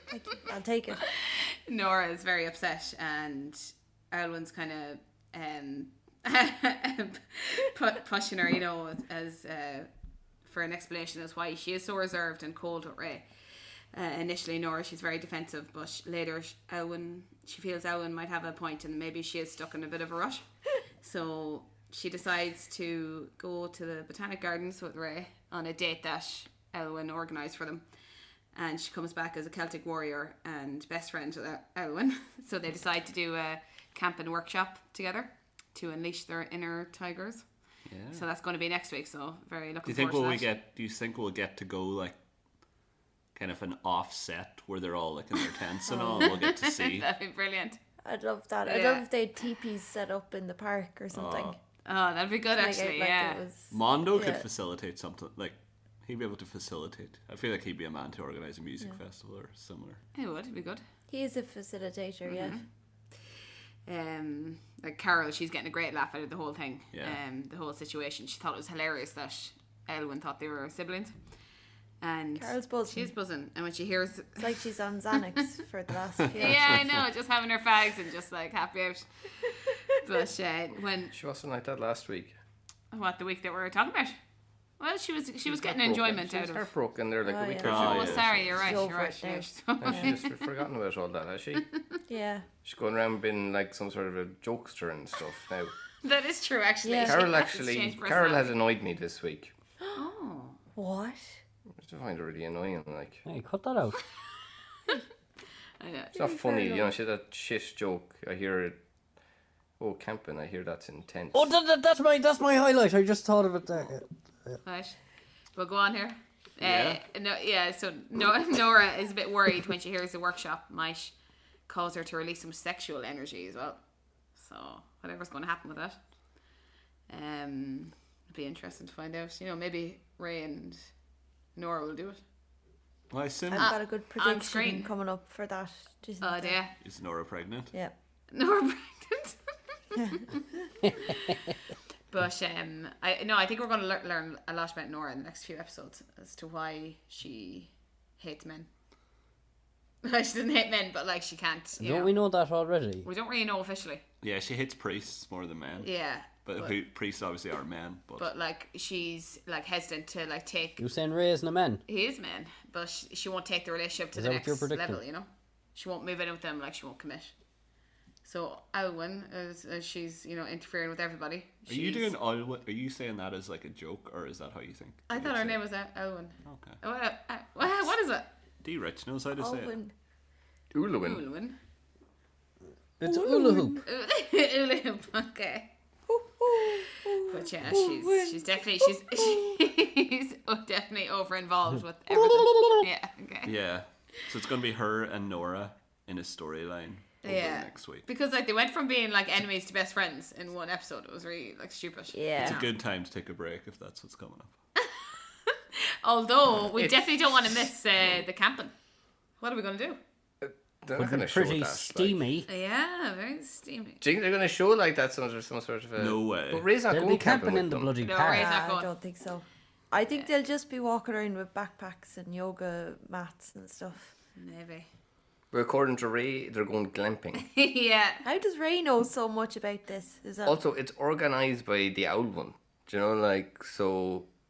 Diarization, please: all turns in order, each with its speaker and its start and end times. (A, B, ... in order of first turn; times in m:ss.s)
0:00.1-0:01.1 A
0:01.0-0:09.9 B
0:10.4-0:13.3 B
0:13.9-0:20.5 B
0:21.0-0:27.9 B
0:28.5-0:37.4 B
0:37.9-0:38.2 C
0:38.1-0:40.5 B
0:39.8-0:42.2 C
0:43.3-0:47.1 C
0:45.9-0:46.3 A
0:46.2-0:47.8 B
0:48.0-0:51.6 A
0:48.6-0:49.1 B
0:51.1-0:51.6 C
0:51.8-0:53.4 B
0:52.5-0:54.4 A
0:53.7-1:00.0 C
1:00.1-1:00.8 B
1:01.1-1:02.6 A
1:02.2-1:02.6 B
1:03.9-1:11.2 B
1:06.9-1:07.2 C
1:12.0-1:14.5 B
1:12.4-1:13.1 A
1:14.4-1:16.9 A
1:16.3-1:17.0 C
1:16.3-1:21.1 B
1:21.1-1:22.4 D
1:22.9-1:24.2 B
1:24.8-1:26.7 B
1:25.5-1:28.5 D
1:27.2-1:30.1 A
1:27.6-1:28.6 C
1:27.6-1:30.5 B
1:29.8-1:31.6 D
1:32.1-1:32.5 A
1:32.6-1:35.7 D
1:36.0-1:38.6 B
1:36.8-1:37.2 A
1:37.1-1:39.5 D
1:40.0-1:40.6 B
1:40.8-1:41.4 A
1:41.8-1:43.2 D
1:43.2-1:44.0 E
1:45.8-1:46.2 B
1:46.1-1:48.8 D
1:46.2-1:46.9 A
1:49.8-1:51.5 D
1:51.3-1:54.6 E
1:54.6-1:55.0 B
1:55.5-2:03.8 B
1:56.6-1:57.0 C
2:04.3-2:06.1 B
2:07.1-2:10.9 B
2:11.6-2:12.2 B
2:13.1-2:13.8 C
2:13.5-2:16.6 A
2:13.6-2:14.9 B
2:16.2-2:16.7 B
2:16.8-2:17.7 C
2:18.3-2:19.4 B
2:20.1-2:21.6 B
2:22.1-2:28.7 B
2:30.0-2:32.1 B
2:31.8-2:33.1 E
2:33.0-2:34.0 B
2:34.2-2:38.3 C
2:35.8-2:36.8 B
2:38.2-2:40.8 B
2:40.8-2:41.8 E
2:41.9-2:47.3 B
2:44.1-2:45.0 E
2:48.2-2:52.1 B
2:51.7-2:55.6 C
2:55.1-2:58.3 B
2:56.4-2:56.8 C
2:58.6-2:59.8 C
2:59.4-2:59.9 A
3:00.7-3:01.2 D
3:01.0-3:01.6 B
3:03.0-3:03.8 E
3:03.0-3:03.8 A
3:03.9-3:05.7 B
3:06.1-3:09.6 A
3:07.2-3:13.5 B
3:12.1-3:12.8 E
3:13.4-3:18.0 C
3:17.2-3:22.7 B
3:22.1-3:22.6 A
3:22.4-3:24.5 C
3:25.5-3:28.7 B
3:26.7-3:27.1 D
3:29.4-3:30.0 B
3:30.4-3:32.2 D
3:31.0-3:32.5 E
3:32.5-3:34.0 B
3:34.0-3:37.9 D
3:36.0-3:36.7 C
3:36.9-3:38.5 E
3:38.0-3:38.9 B
3:38.3-3:44.1 A
3:44.4-3:44.9 B
3:45.5-3:47.4 D
3:47.4-3:48.2 B
3:48.2-3:50.6 A
3:50.4-3:54.3 D